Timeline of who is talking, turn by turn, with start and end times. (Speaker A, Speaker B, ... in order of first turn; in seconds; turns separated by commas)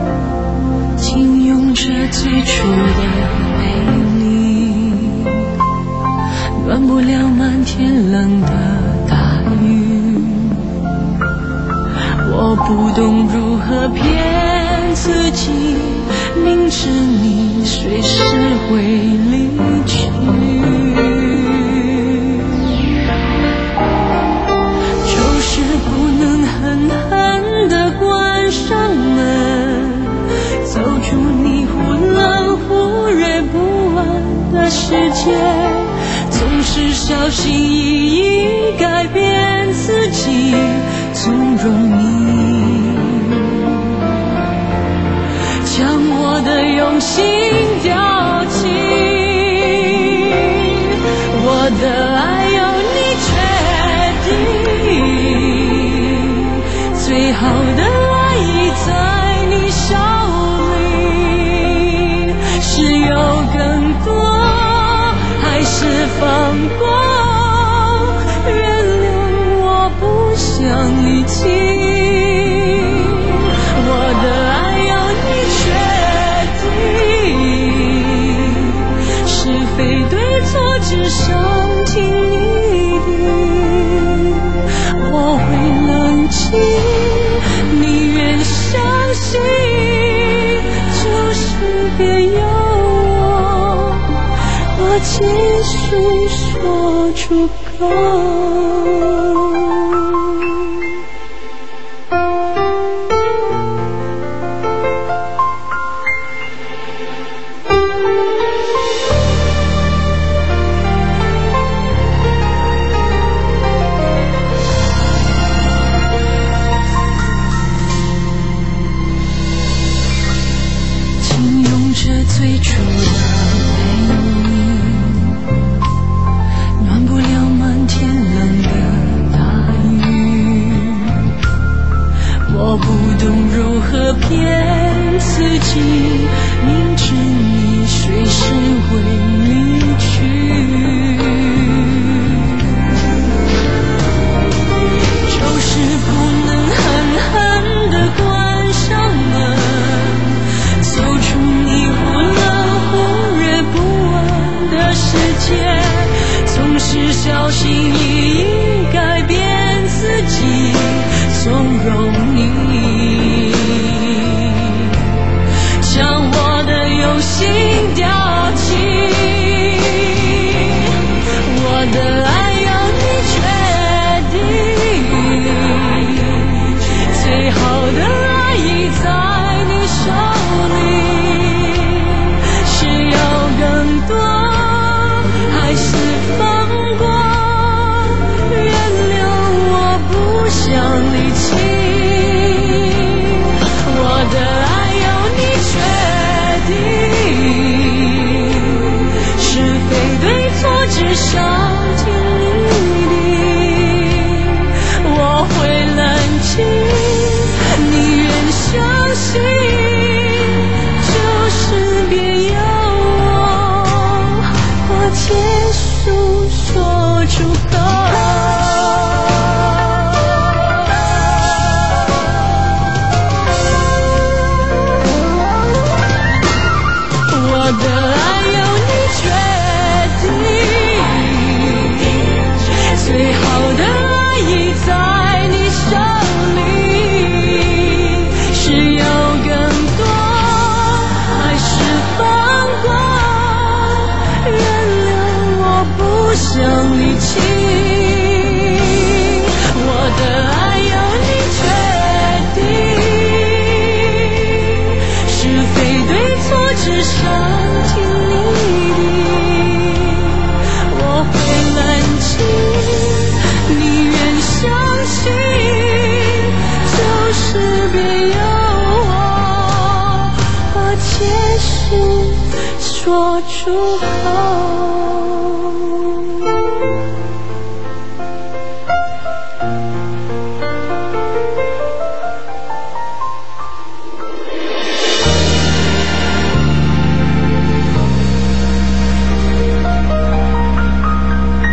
Speaker A: 1.0-5.5, Speaker A: 6.5-10.7, Speaker A: 12.2-22.6, Speaker A: 25.1-44.1, Speaker A: 45.6-94.1, Speaker A: 94.8-100.7, Speaker A: 121.2-125.4, Speaker A: 126.8-131.2, Speaker A: 132.5-142.7, Speaker A: 145.2-165.1, Speaker A: 165.8-220.5, Speaker A: 227.3-276.3